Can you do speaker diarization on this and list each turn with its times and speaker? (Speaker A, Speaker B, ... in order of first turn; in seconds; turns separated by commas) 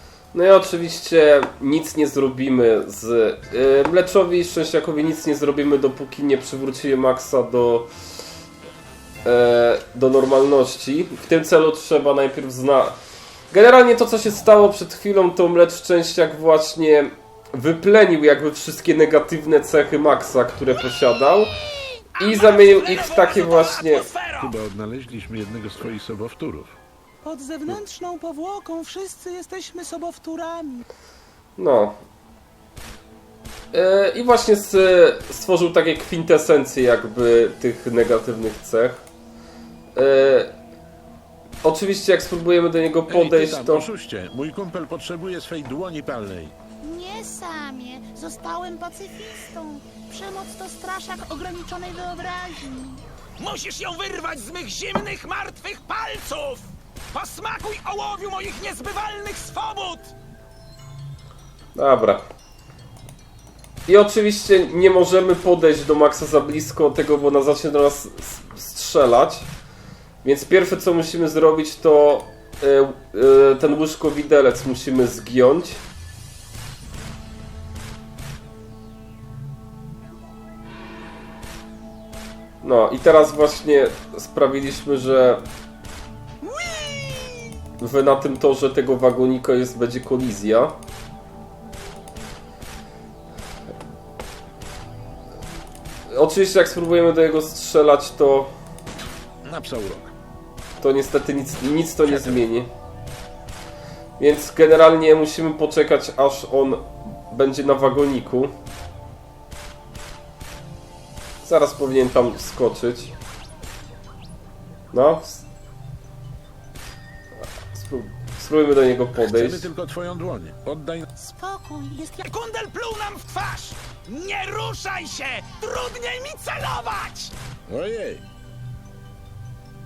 Speaker A: 0.3-7.9, Speaker A: 9.2-13.0, Speaker A: 13.5-21.6, Speaker B: 22.1-24.6, Speaker A: 22.2-24.1, Speaker C: 24.4-26.8, Speaker D: 27.2-30.8, Speaker A: 31.6-32.0, Speaker A: 33.7-39.0, Speaker A: 40.0-40.5, Speaker A: 41.6-43.9, Speaker C: 43.1-46.5, Speaker E: 46.8-53.0, Speaker B: 53.4-60.1, Speaker A: 61.8-62.2, Speaker A: 63.9-69.5, Speaker A: 70.2-75.8, Speaker A: 82.6-85.4, Speaker D: 86.4-87.3, Speaker A: 87.8-90.8, Speaker A: 96.1-98.5, Speaker C: 99.4-100.1, Speaker A: 100.8-102.7, Speaker C: 102.0-102.5, Speaker A: 104.2-108.5, Speaker A: 111.4-113.1, Speaker A: 114.9-115.4, Speaker A: 117.7-119.7, Speaker C: 119.2-121.1, Speaker E: 121.2-122.3, Speaker B: 122.3-127.3, Speaker C: 127.7-128.2